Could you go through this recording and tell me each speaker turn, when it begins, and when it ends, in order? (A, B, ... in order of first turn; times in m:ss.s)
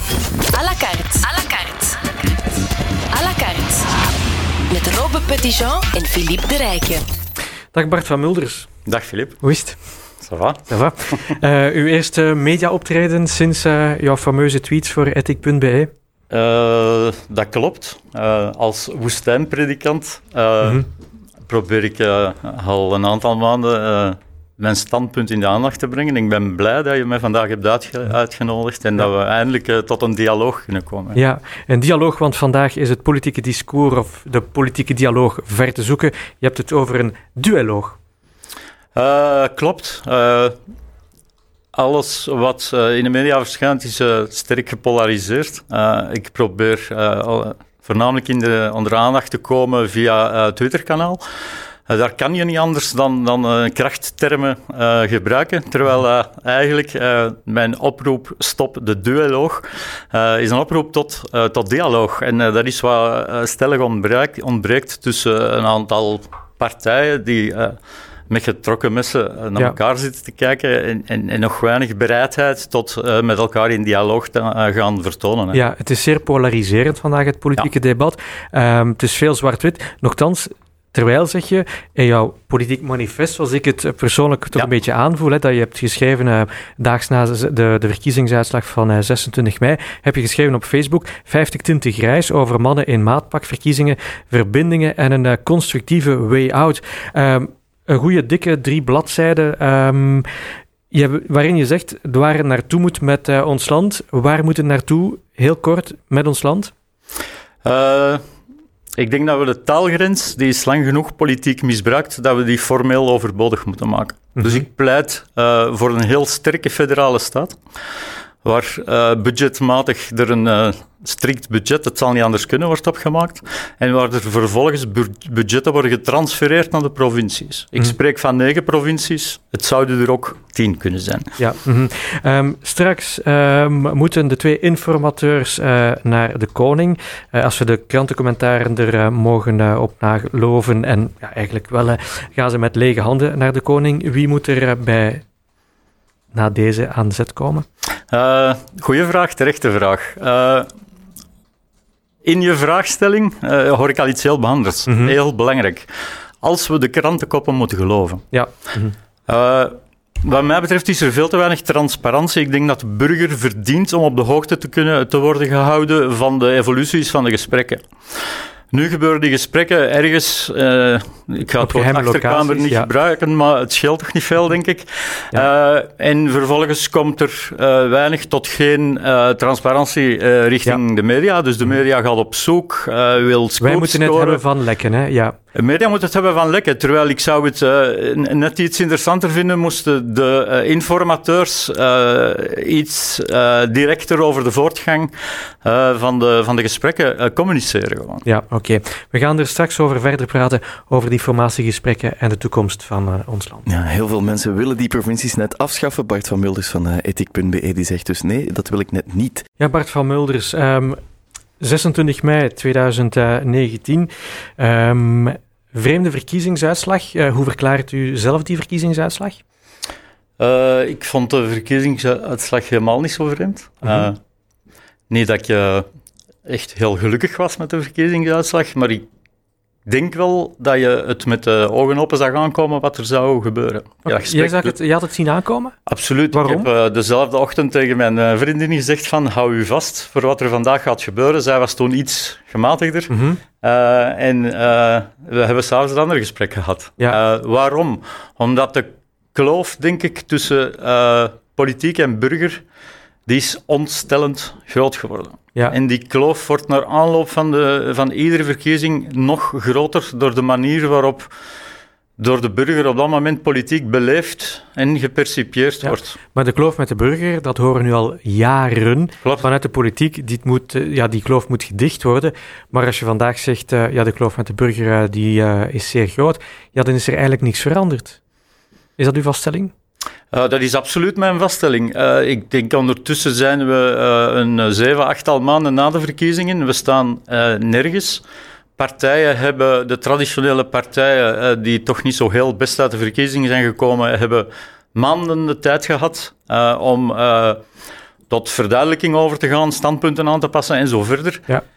0:00.5-0:02.1 A
0:03.1-0:03.9 A
0:04.7-0:07.0 A
0:07.7-0:08.7 B
0:08.8-0:09.4 C
0:09.4-0:09.8 B
0:10.2-0:10.7 C
0:10.7-0:15.9 B
0:16.3-0:20.9 C
0:21.5-0:31.2 C
0:31.1-0:38.0 B
0:38.9-0:40.6 C
0:41.7-0:51.2 C
0:51.9-1:07.8 C
1:08.3-1:15.6 C
1:15.5-1:40.3 B
1:40.9-1:46.7 B
1:47.6-1:48.2 C
1:49.0-1:57.6 C
1:54.4-1:54.6 B
1:58.4-2:11.4 C
2:11.4-2:25.2 B
2:26.3-2:27.6 B
2:28.1-2:30.7 C
2:32.2-2:35.9 C
2:34.9-2:35.1 B
2:36.4-2:38.2 C
2:38.3-2:38.9 B
2:39.3-2:48.2 C
2:48.7-3:04.4 C
2:51.6-2:52.9 B
3:03.6-3:05.4 B
3:05.5-3:15.1 C
3:15.6-3:18.2 C
3:18.2-3:23.6 B
3:23.6-3:29.4 D
3:29.6-3:31.0 B
3:31.6-3:39.4 B
3:40.4-3:44.2 C
3:43.8-3:44.1 B
3:45.1-3:45.8 C
3:46.4-3:49.0 C
3:49.8-3:54.8 C
3:54.0-3:55.8 B
3:55.9-4:12.6 C
3:56.3-3:56.7 B
4:03.1-4:03.4 B
4:13.3-4:21.3 C
4:22.2-4:26.2 C
4:25.8-4:38.2 B
4:39.0-4:39.7 B
4:40.3-4:48.2 C
4:48.8-4:57.6 C
4:58.3-5:01.5 C